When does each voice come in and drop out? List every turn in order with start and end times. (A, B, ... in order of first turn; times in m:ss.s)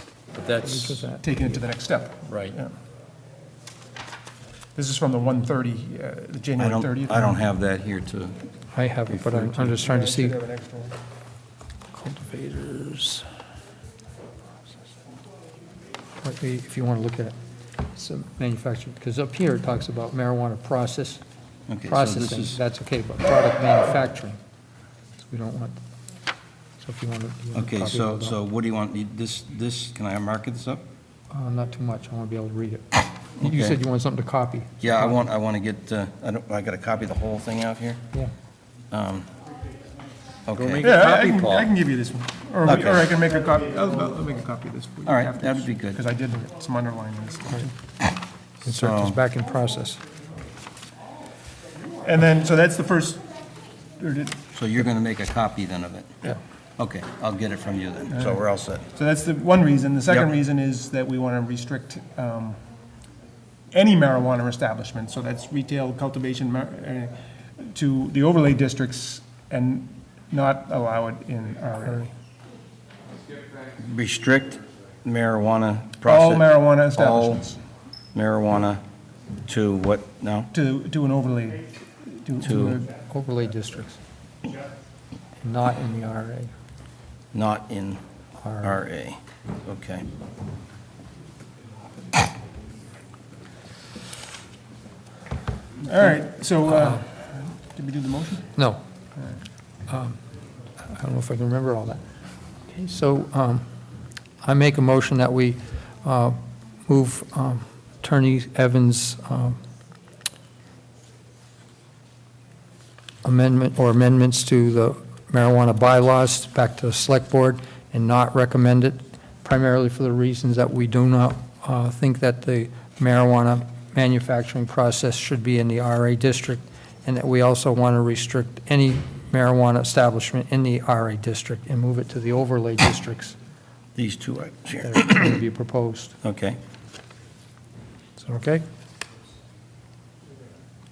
0:00.3-0:01.0 A
0:00.6-0:01.6 B
0:01.2-0:02.7 C
0:02.3-0:02.6 A
0:04.8-0:07.4 C
0:06.6-0:08.4 D
0:08.7-0:10.4 B
0:09.1-0:09.6 D
0:09.6-0:11.0 C
0:11.9-0:13.2 B
0:16.2-0:17.4 B
0:17.9-0:21.2 B
0:21.7-0:22.6 D
0:21.8-0:24.4 B
0:25.2-0:25.8 B
0:26.8-0:28.3 B
0:27.5-0:30.8 D
0:31.3-0:35.2 B
0:33.4-0:33.8 D
0:34.8-0:38.0 D
0:38.9-0:39.3 D
0:40.5-0:40.9 D
0:40.5-0:41.7 A
0:40.8-0:47.7 C
0:42.6-0:43.0 D
0:45.0-0:46.0 D
0:48.6-0:50.0 B
0:48.7-0:49.2 D
0:52.0-0:53.2 C
0:54.0-0:54.4 C
0:54.5-0:56.2 D
0:56.8-0:58.8 D
0:58.1-1:02.6 C
1:03.7-1:12.1 C
1:13.8-1:17.5 D
1:16.0-1:17.6 C
1:18.1-1:18.8 D
1:19.4-1:20.5 D
1:20.5-1:22.9 C
1:22.4-1:22.8 D
1:23.0-1:24.0 B
1:25.4-1:26.5 B
1:27.3-1:28.0 D
1:28.4-1:28.8 B
1:28.6-1:30.0 D
1:35.8-1:38.5 C
1:36.7-1:37.0 B
1:38.6-1:38.8 B
1:39.9-1:40.2 B
1:40.8-1:42.0 B
1:42.7-1:43.7 B
1:44.4-1:49.6 B
1:53.2-2:13.4 B
2:14.0-2:15.3 D
2:14.8-2:16.2 B
2:16.2-2:16.6 D
2:18.2-2:18.6 B